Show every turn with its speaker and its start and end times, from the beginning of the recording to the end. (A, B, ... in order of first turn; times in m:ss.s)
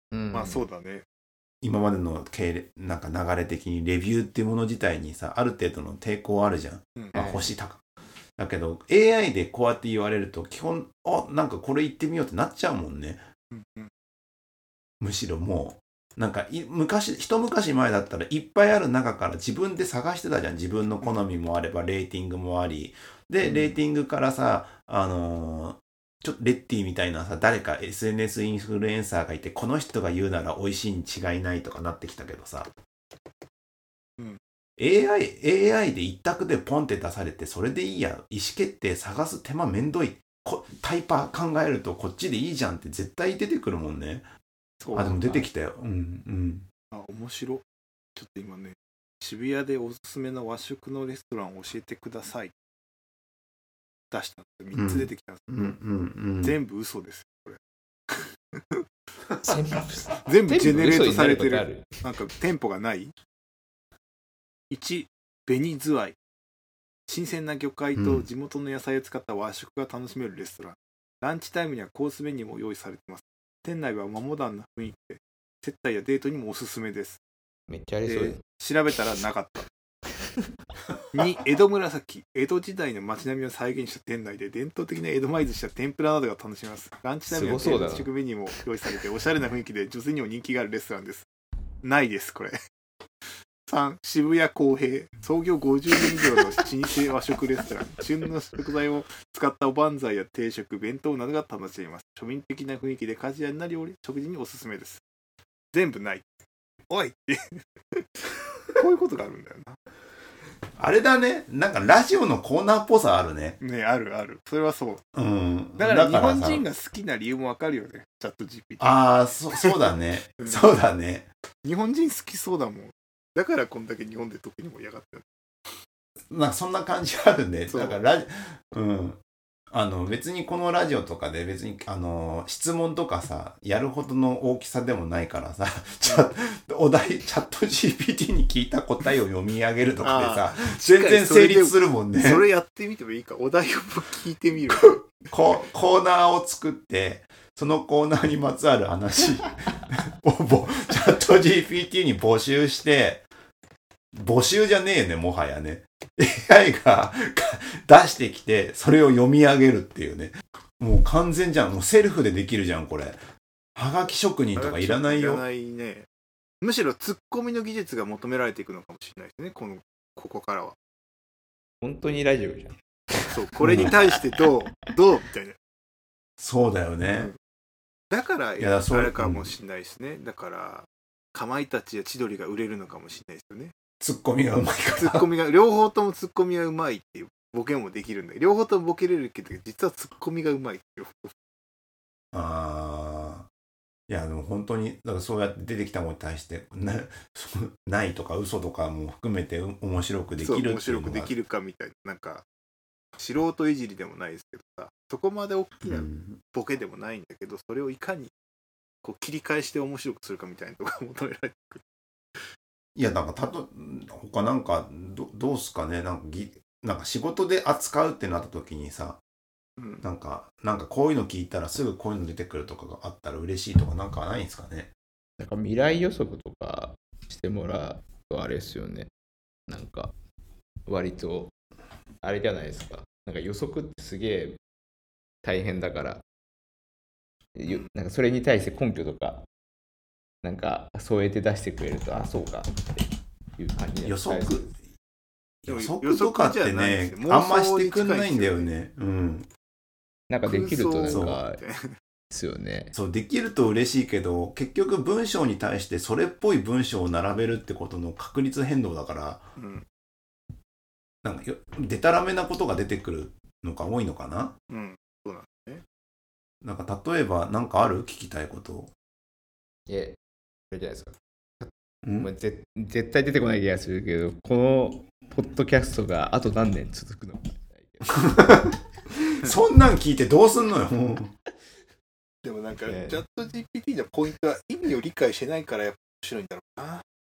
0:00.1-0:00.7 A
0:00.3-0:01.0 B
0:01.6-0:07.8 C
0:07.1-0:07.5 A
0:08.4-0:13.2 C
0:13.5-0:13.9 B
0:15.0-0:32.7 C
0:23.4-0:23.8 A
0:34.8-0:44.3 C
0:44.8-0:45.4 B
0:44.9-0:46.7 C
0:46.9-0:47.6 B
0:48.2-0:52.5 B
0:54.1-0:55.8 B
0:54.7-0:56.6 C
0:56.4-0:58.8 B
0:59.4-1:02.0 A
1:00.2-1:03.1 B
1:04.7-1:06.2 B
1:07.1-1:17.2 B
1:08.0-1:08.3 C
1:17.7-1:18.4 A
1:18.1-1:19.7 B
1:21.1-1:31.3 B
1:27.3-1:28.1 A
1:31.8-1:32.6 B
1:33.7-1:45.0 B
1:45.7-1:46.3 B
1:46.9-1:49.8 B
1:50.8-1:53.6 C
1:53.6-1:55.0 B
1:55.1-1:56.6 C
1:55.8-1:58.9 B
1:58.8-2:01.3 C
1:59.5-2:00.7 B
2:01.6-2:05.2 B
2:06.3-2:09.2 C
2:07.7-2:08.0 B
2:09.7-2:22.5 C
2:16.0-2:16.3 B
2:20.0-2:25.3 B
2:24.8-2:33.3 C
2:34.1-2:43.2 C
2:43.8-2:45.4 C
2:44.6-2:46.1 B
2:46.6-2:50.8 B
2:51.8-2:54.5 A
2:53.3-2:55.6 B
2:53.6-2:53.9 C
2:56.4-2:57.3 C
2:58.1-3:03.7 B
2:58.6-2:59.5 C
3:04.0-3:05.3 C
3:05.0-3:11.3 B
3:12.3-3:13.5 C
3:14.1-3:21.3 C
3:20.4-3:22.4 B
3:23.2-3:28.3 B
3:25.9-3:26.4 C
3:29.0-3:31.8 B
3:33.0-3:39.2 C
3:39.8-3:40.0 B
3:40.0-3:44.9 C
3:45.4-3:49.1 A
3:49.7-3:50.1 A
3:50.9-3:51.5 A
3:52.2-3:54.6 A
3:55.4-3:56.2 A
3:57.6-3:59.5 A
4:00.4-4:04.7 A
4:04.0-4:04.8 C
4:05.6-4:09.5 C
4:05.7-4:08.7 B
4:10.3-4:11.6 A
4:10.5-4:12.0 B
4:11.1-4:11.4 C
4:12.3-4:12.9 A
4:12.9-4:19.5 C
4:19.6-4:19.8 B
4:21.2-4:24.6 C
4:24.7-4:25.8 B
4:26.6-4:28.9 C
4:29.9-4:30.2 A
4:30.7-4:38.4 A
4:32.0-4:32.3 C
4:38.1-4:41.3 C
4:42.4-4:47.0 B
4:42.8-4:43.2 A